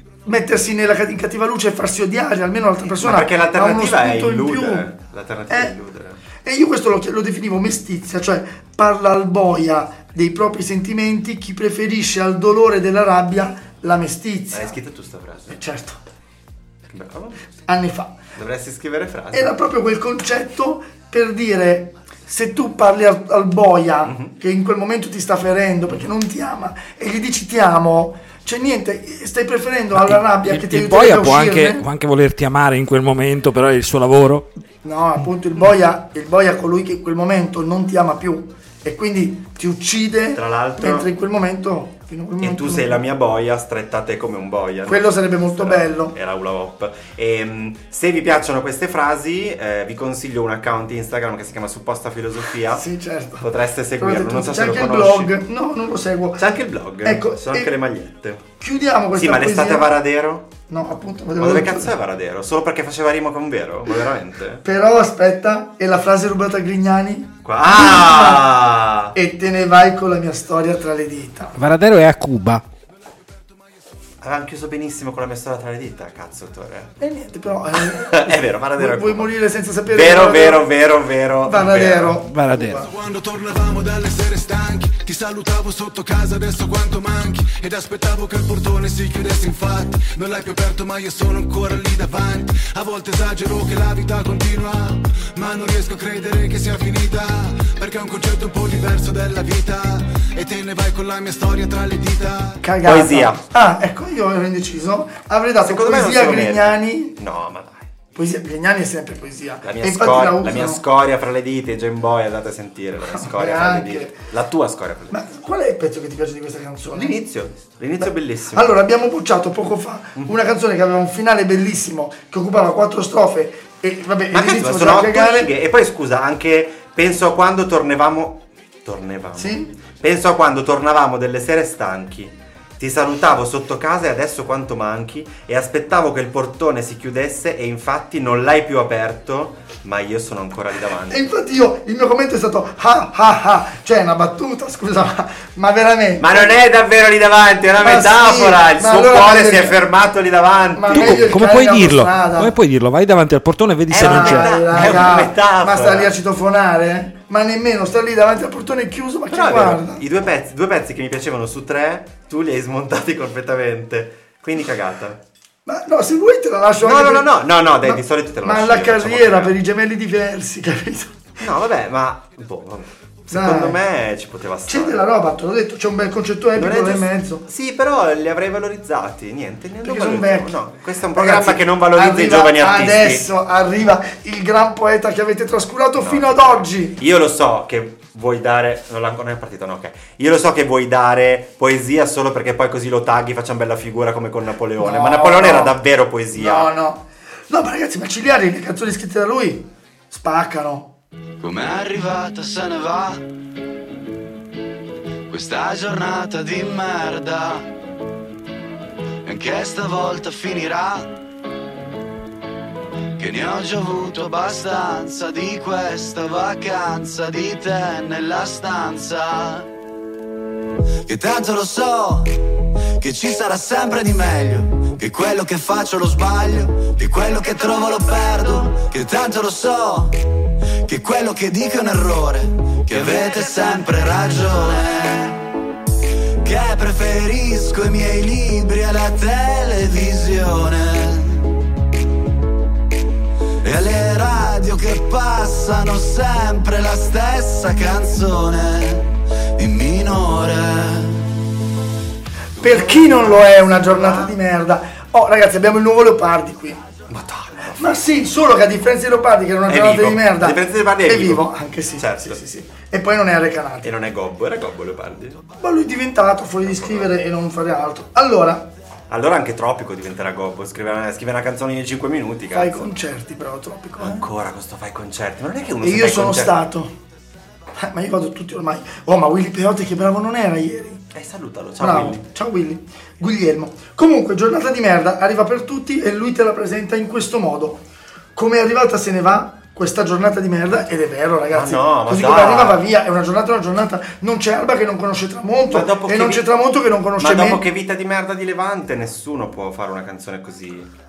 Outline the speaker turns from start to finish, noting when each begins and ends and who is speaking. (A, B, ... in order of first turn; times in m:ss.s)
0:00.2-0:04.9 A
0:03.0-0:06.2 B
0:05.5-0:05.8 A
0:06.4-0:14.8 A
0:14.5-0:15.6 B
0:15.5-0:16.0 A
0:16.9-0:17.4 B
0:17.7-0:18.2 A
0:18.4-0:19.5 B
0:19.3-0:31.8 A
0:24.0-0:24.3 B
0:30.0-0:34.5 C
0:34.8-0:43.0 A
0:40.3-0:41.1 B
0:42.4-0:52.8 B
0:44.9-0:46.1 A
0:52.7-0:53.5 A
0:53.4-0:55.4 B
0:54.0-0:56.4 A
0:56.4-0:58.4 B
0:57.0-0:57.7 A
0:58.6-0:59.9 A
0:59.1-1:00.5 B
1:00.7-1:01.9 A
1:01.4-1:04.6 B
1:04.6-1:08.4 A
1:07.4-1:09.1 B
1:09.1-1:11.6 A
1:11.6-1:12.6 C
1:14.2-1:16.9 B
1:17.0-1:20.7 A
1:17.8-1:19.3 B
1:19.9-1:22.2 B
1:21.4-1:22.9 A
1:22.3-1:22.8 C
1:22.7-1:42.6 D
1:42.6-1:47.2 A
1:42.8-1:43.4 B
1:45.6-1:47.9 B
1:48.1-1:50.8 A
1:49.6-1:55.2 B
1:53.1-1:54.2 A
1:55.1-1:57.2 A
1:56.9-1:58.7 B
1:58.0-2:05.5 A
2:04.3-2:21.3 B
2:09.4-2:09.7 A
2:21.1-2:26.5 A
2:26.2-2:31.4 B
2:27.8-2:29.8 A
2:30.8-2:32.5 A
2:30.9-2:35.1 C
2:33.9-2:36.1 B
2:34.0-2:40.0 A
2:39.3-2:45.2 B
2:45.6-2:47.3 A
2:46.8-2:49.5 B
2:47.8-2:51.3 A
2:51.4-2:55.1 B
2:53.3-2:53.8 A
2:54.7-2:57.4 A
2:56.6-3:03.2 B
2:59.8-3:00.6 A
3:01.1-3:07.0 A
3:06.0-3:16.7 B
3:14.8-3:15.8 A
3:16.4-3:20.9 A
3:21.4-3:23.2 E
3:25.3-3:27.7 E
3:29.2-3:31.1 E
3:33.2-3:39.7 E
3:41.0-3:42.4 E
3:43.0-3:50.2 E
3:50.8-3:55.4 E
3:56.4-4:01.5 E
4:03.6-4:11.3 E
4:12.6-4:16.8 A
4:12.6-4:14.4 B
4:17.1-4:18.1 B
4:17.8-4:23.9 A
4:19.7-4:22.4 B
4:23.8-4:25.4 B
4:25.6-4:28.7 A
4:26.6-4:27.1 B
4:29.1-4:32.9 B
4:32.5-4:34.2 A
4:34.0-4:36.6 B
4:35.8-4:37.0 A
4:37.8-4:41.0 A
4:41.1-4:42.2 B
4:41.8-4:47.8 A
4:48.4-4:57.6 A
4:51.5-4:52.8 B
4:55.7-4:56.5 B
4:57.2-5:00.9 B